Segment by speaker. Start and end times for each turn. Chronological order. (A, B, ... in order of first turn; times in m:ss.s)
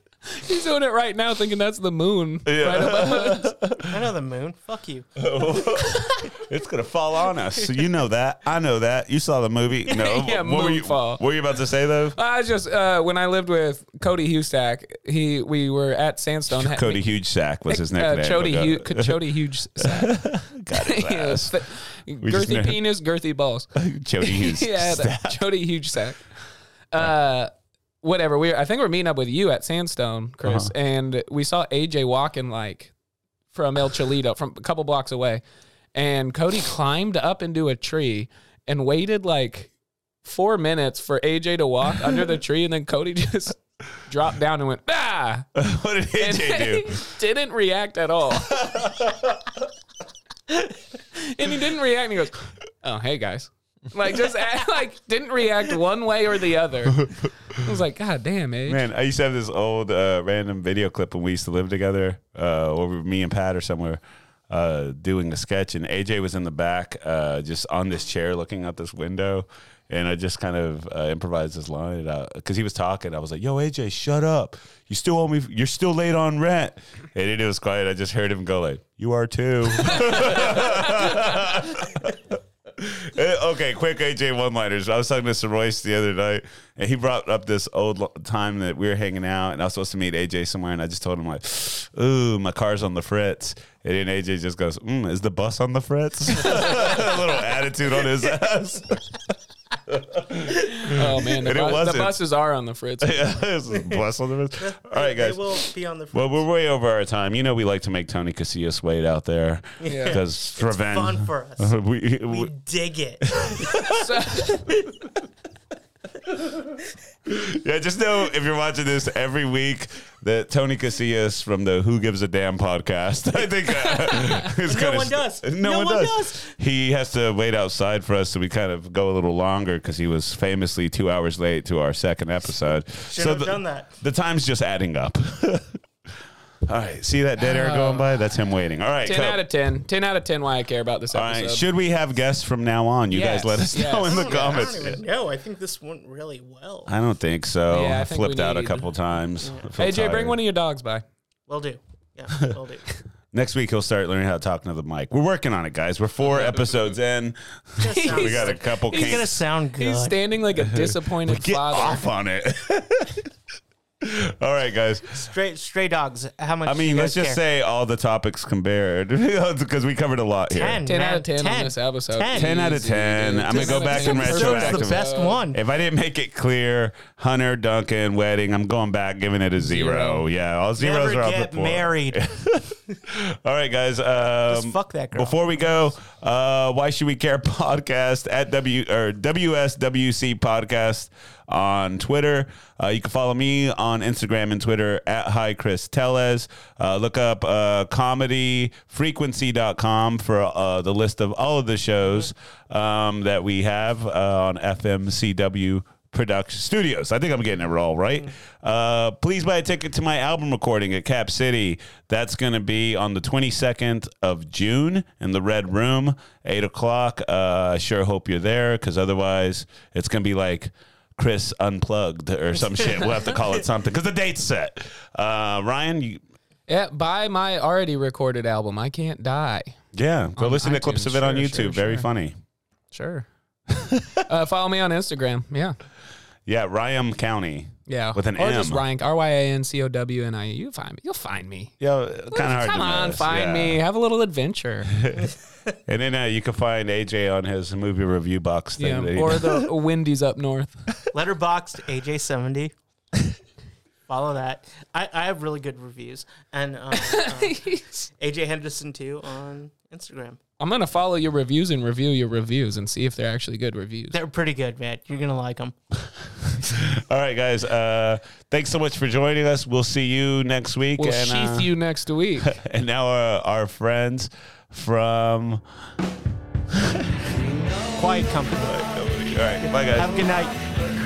0:00.3-0:03.5 A
0:02.5-0:04.0 B
0:03.9-0:05.1 C
0:05.2-0:12.2 B
0:09.9-0:11.2 A
0:12.1-0:17.0 A
0:16.5-0:19.2 B
0:17.7-0:23.7 A
0:19.8-0:21.6 B
0:22.2-0:22.8 B
0:23.8-0:25.4 B
0:24.2-0:26.2 A
0:26.9-0:27.5 A
0:28.0-0:32.9 A
0:30.4-0:30.7 B
0:33.5-0:35.4 A
0:35.9-0:39.7 A
0:40.2-0:45.5 A
0:45.6-0:47.0 B
0:46.2-0:48.7 A
0:48.4-0:49.5 B
0:51.1-0:58.8 A
0:58.7-1:39.2 B
1:19.8-1:20.8 A
1:39.9-1:42.2 B
1:40.6-1:43.4 A
1:43.0-1:52.5 B
1:43.7-1:44.0 C
1:44.6-1:46.4 C
1:49.8-1:51.7 C
1:49.9-1:50.2 A
1:52.3-1:53.8 C
1:53.2-1:54.4 B
1:53.9-1:54.6 A
1:57.3-2:15.8 B
2:04.1-2:06.5 C
2:13.1-2:13.9 C
2:16.7-2:19.4 B
2:17.4-2:18.1 A
2:19.0-2:21.6 A
2:21.1-2:25.0 B
2:23.1-2:24.8 A
2:24.0-2:26.9 C
2:26.9-2:30.4 B
2:27.7-2:28.9 A
2:29.4-2:29.7 C
2:29.8-2:31.0 A
2:31.5-2:32.8 C
2:33.3-2:39.4 B
2:36.3-2:36.6 A
2:37.8-2:40.2 C
2:37.9-2:39.2 A
2:39.8-2:42.1 A
2:40.6-2:43.3 B
2:44.0-2:45.1 B
2:45.1-2:47.4 C
2:46.6-2:50.8 B
2:50.5-2:52.6 C
2:50.9-2:55.4 A
2:52.3-3:46.2 B
2:53.5-2:55.6 C
2:59.6-3:00.2 A
3:00.8-3:02.3 C
3:04.5-3:05.4 C
3:46.7-3:49.8 A
3:49.9-3:52.4 B
3:50.4-3:52.1 A
3:52.9-3:53.3 A
3:53.7-3:54.2 B
3:54.2-3:55.8 A
3:56.5-3:58.8 B
3:57.9-4:01.8 A
4:01.8-4:03.8 B
4:02.3-4:04.9 A
4:04.9-4:05.3 B
4:05.9-4:09.7 B
4:08.8-4:10.8 A
4:11.1-4:12.7 C
4:14.1-4:20.4 C
4:16.9-4:17.8 A
4:20.6-4:24.2 A
4:24.1-4:25.8 C
4:26.5-4:31.7 B
4:31.0-4:32.6 A
4:32.4-4:35.6 B
4:36.7-4:37.3 B
4:37.9-4:38.9 C
4:38.6-4:40.3 B
4:39.6-4:40.5 C